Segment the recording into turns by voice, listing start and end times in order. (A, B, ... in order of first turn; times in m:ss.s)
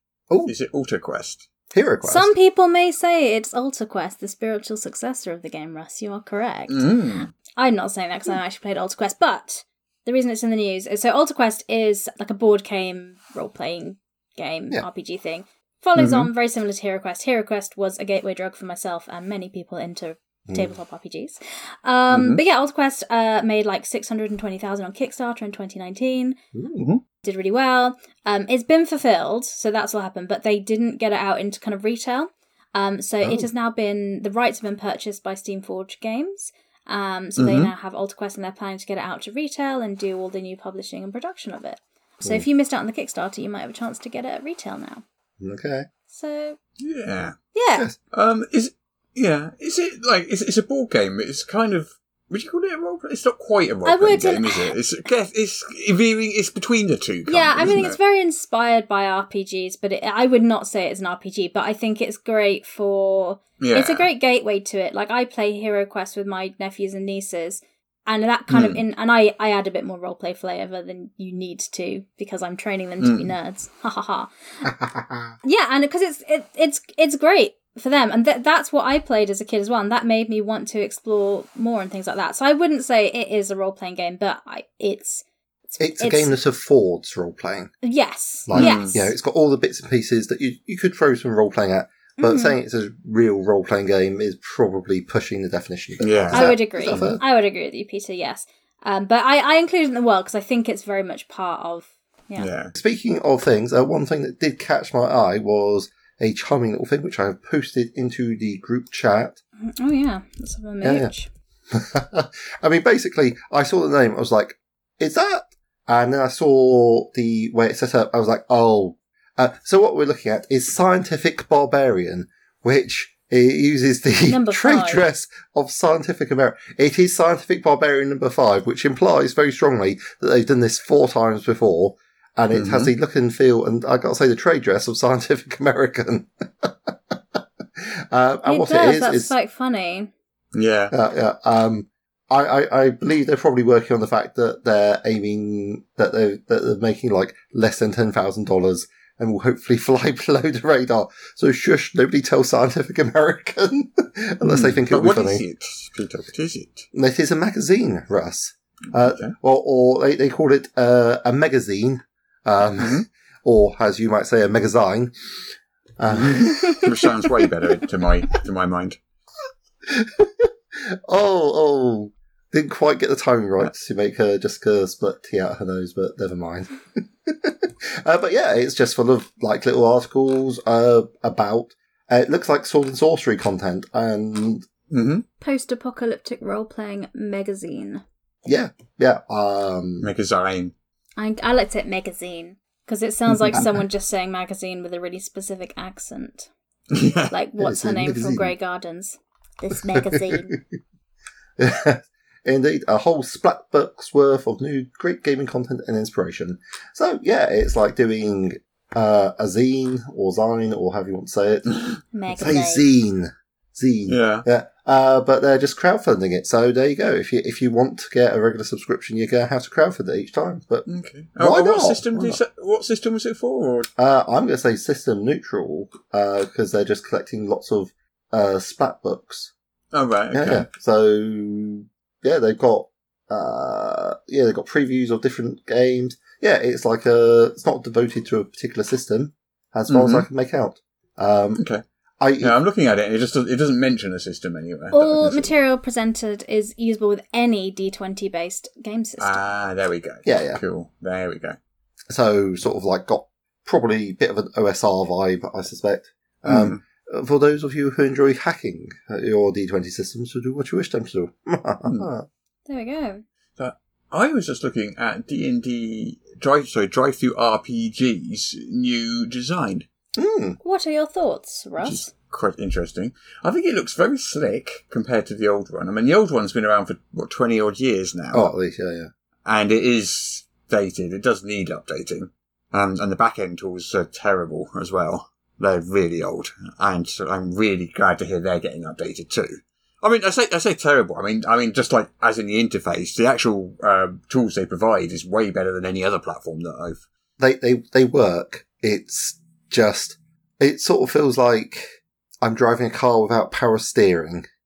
0:00.5-0:01.4 A
0:01.7-0:02.3 B
0:02.0-0:26.4 C
0:06.7-0:07.3 A
0:16.0-0:16.3 A
0:20.5-0:20.7 B
0:22.1-0:22.4 A
0:26.5-0:26.8 B
0:27.2-0:45.0 C
0:33.2-0:33.5 B
0:37.4-0:37.7 A
0:45.4-0:45.9 B
0:46.1-0:46.6 C
0:46.8-0:47.4 A
0:47.6-0:47.9 C
0:48.1-0:58.0 A
0:53.9-0:54.8 C
0:57.3-1:14.3 C
1:03.6-1:04.1 A
1:08.5-1:08.8 A
1:13.0-1:13.3 A
1:14.6-1:15.3 B
1:15.4-1:26.3 C
1:25.8-1:27.7 B
1:27.8-1:29.1 C
1:28.5-1:37.2 B
1:28.5-1:29.0 A
1:32.2-1:32.6 C
1:36.0-1:37.1 A
1:36.3-1:42.5 C
1:42.4-1:42.8 A
1:42.8-1:49.4 B
1:49.6-1:51.3 C
1:50.8-1:51.1 B
1:51.7-2:19.3 B
2:04.3-2:05.0 C
2:12.5-2:12.9 A
2:18.5-2:20.1 C
2:20.5-2:20.9 A
2:20.9-2:35.4 B
2:34.5-2:36.9 A
2:36.9-2:45.1 B
2:39.0-2:39.4 A
2:42.8-2:43.1 A
2:46.0-2:47.5 B
2:46.1-2:49.0 A
2:49.8-3:04.7 B
3:04.9-3:05.2 A
3:05.4-3:08.0 C
3:08.5-3:10.1 B
3:10.0-3:10.7 A
3:11.2-3:16.5 C
3:13.5-3:13.8 B
3:16.9-3:17.3 A
3:17.3-3:20.6 C
3:17.6-3:18.5 B
3:20.0-3:20.6 B
3:21.6-3:31.7 B
3:31.7-3:32.0 A
3:32.1-3:32.9 C
3:32.3-3:40.9 B
3:34.1-3:34.5 A
3:40.9-3:43.9 A
3:41.4-3:42.4 B
3:44.0-3:49.5 B
3:49.9-3:50.7 A
3:50.3-4:01.6 B
3:59.9-4:00.3 A
4:01.6-4:01.8 A
4:02.2-4:02.6 B
4:02.4-4:05.5 A
4:04.9-4:09.4 C
4:09.2-4:11.6 A
4:10.3-4:10.6 B
4:12.1-4:22.3 B
4:16.4-4:16.8 A
4:22.7-4:23.2 C
4:23.6-4:29.9 A
4:30.2-4:30.6 B
4:30.6-4:32.1 C
4:31.8-4:38.5 A
4:38.3-4:39.1 B
4:39.4-4:57.0 A
4:57.4-5:04.5 B